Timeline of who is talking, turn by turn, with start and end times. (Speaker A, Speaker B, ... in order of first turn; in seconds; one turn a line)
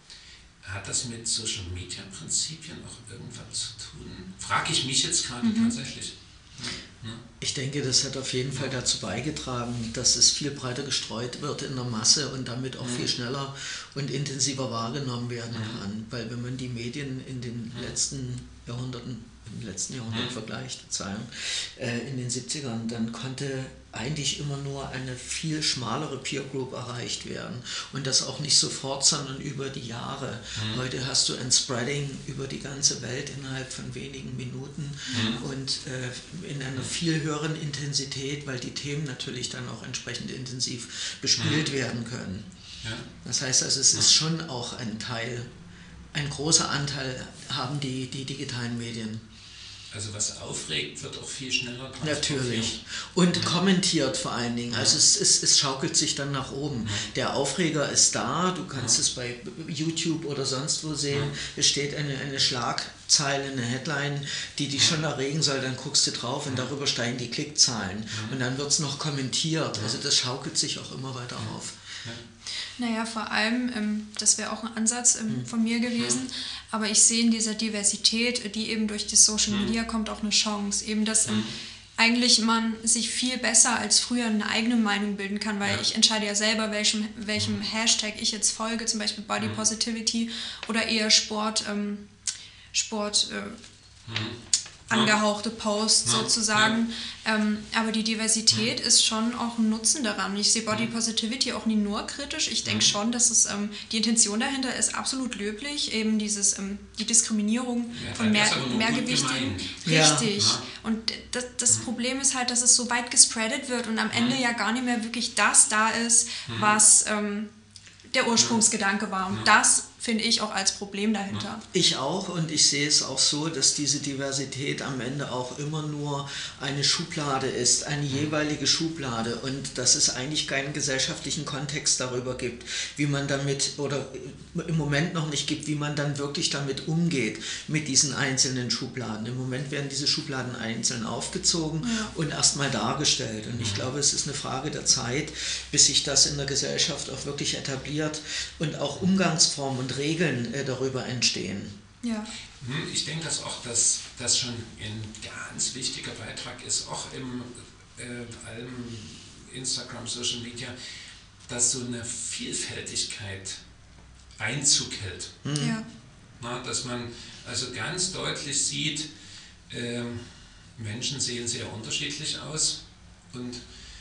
Speaker A: 0.6-7.2
Speaker B: 5.4-5.7
Speaker C: 7.4-42.5
Speaker A: 12.8-13.1
Speaker A: 15.5-15.8
Speaker A: 30.6-30.8
Speaker B: 35.1-35.4
Speaker A: 35.1-35.4
Speaker A: 41.4-41.7
Speaker C: 43.2-45.5
Speaker C: 46.1-49.2
Speaker A: 49.9-52.8
Speaker C: 52.0-71.8
Speaker A: 68.1-68.4
Speaker B: 72.8-92.1
Speaker A: 81.3-81.5
Speaker B: 92.7-93.6
Speaker A: 94.1-94.4
Speaker B: 94.9-117.5
Speaker A: 96.0-96.8
Speaker A: 102.7-102.9
Speaker A: 107.9-110.6
Speaker C: 109.8-110.3
Speaker A: 114.1-114.4
Speaker B: 118.1-121.6
Speaker C: 121.7-151.7
Speaker B: 141.8-142.1
Speaker A: 143.5-143.8
Speaker B: 152.0-152.3
Speaker A: 152.6-160.7
Speaker A: 161.5-163.6
Speaker A: 164.4-165.3
Speaker C: 165.4-165.8
Speaker B: 165.6-165.8
Speaker A: 166.4-169.1
Speaker A: 169.7-172.8
Speaker A: 173.3-173.6